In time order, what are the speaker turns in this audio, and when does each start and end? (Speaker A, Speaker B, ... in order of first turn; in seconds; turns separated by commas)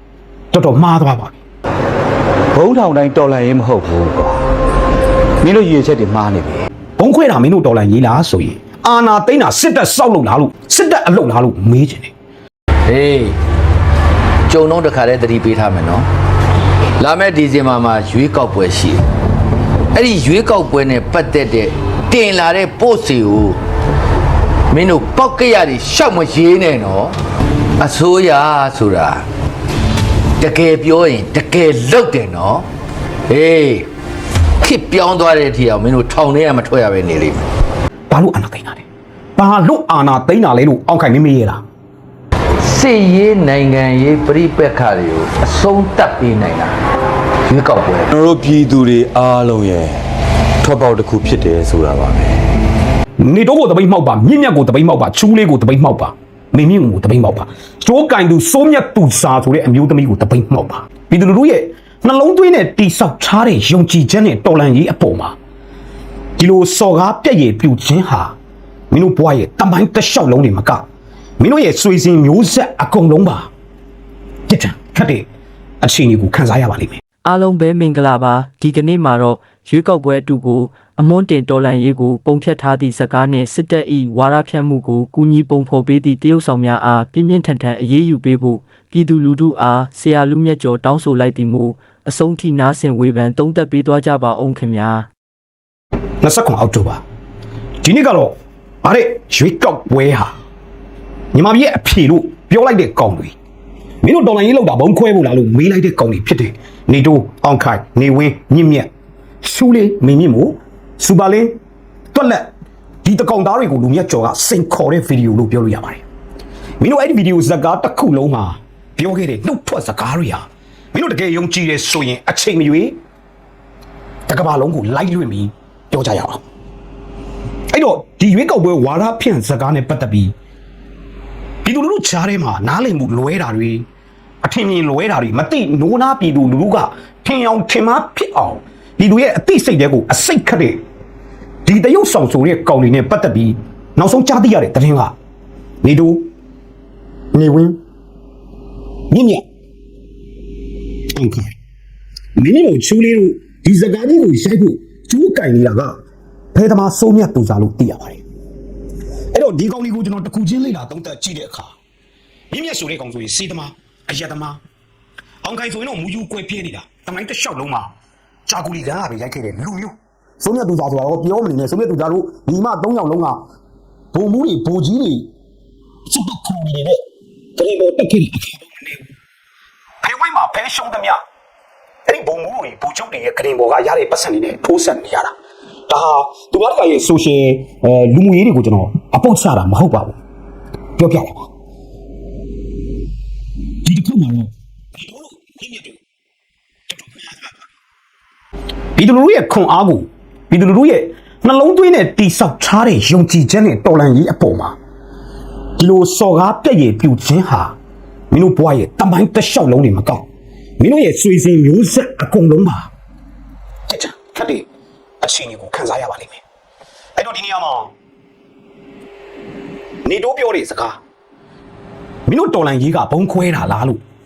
Speaker A: 0.5-1.4, Speaker B: 2.5-4.4, Speaker B: 5.4-6.7, Speaker A: 7.0-12.1, Speaker C: 12.9-13.3, Speaker C: 14.5-16.1, Speaker C: 17.0-19.0, Speaker C: 19.9-23.6, Speaker C: 24.7-27.1, Speaker C: 27.8-29.2, Speaker C: 30.4-32.6, Speaker C: 33.3-33.9, Speaker C: 34.6-37.5, Speaker A: 38.1-38.8, Speaker A: 39.4-41.6, Speaker C: 42.6-46.7, Speaker C: 47.5-48.1, Speaker B: 48.1-50.0, Speaker B: 50.6-52.4, Speaker A: 53.2-65.3, Speaker A: 66.4-68.3, Speaker A: 68.9-70.8, Speaker A: 71.4-73.5, Speaker A: 74.5-75.3, Speaker A: 75.8-77.0, Speaker D: 77.2-95.1, Speaker A: 96.2-97.0, Speaker A: 97.8-100.3, Speaker A: 101.3-103.3, Speaker A: 104.0-108.9, Speaker A: 109.4-111.5, Speaker A: 112.1-112.5, Speaker A: 113.0-116.0, Speaker A: 116.8-123.0, Speaker A: 124.3-126.4, Speaker A: 127.7-130.3, Speaker A: 131.6-133.9, Speaker A: 134.4-140.8, Speaker A: 141.6-145.1, Speaker A: 145.8-146.3, Speaker A: 147.3-147.8, Speaker A: 149.1-149.4, Speaker A: 151.1-151.5, Speaker A: 152.4-156.0, Speaker A: 156.5-158.2, Speaker A: 159.3-161.7, Speaker A: 162.5-164.6, Speaker A: 165.4-167.9, Speaker A: 168.5-173.4, Speaker A: 174.1-175.3, Speaker A: 176.1-177.0, Speaker A: 177.6-179.1, Speaker A: 180.0-181.2, Speaker A: 182.1-185.3, Speaker A: 185.9-190.2, Speaker A: 191.0-191.5, Speaker A: 193.8-196.0, Speaker A: 196.9-197.6, Speaker A: 198.9-204.8, Speaker A: 205.8-207.7, Speaker A: 208.3-210.2, Speaker A: 210.8-212.9, Speaker A: 213.9-214.7, Speaker A: 215.2-216.4, Speaker A: 217.2-217.9, Speaker A: 220.0-221.0, Speaker A: 222.3-224.0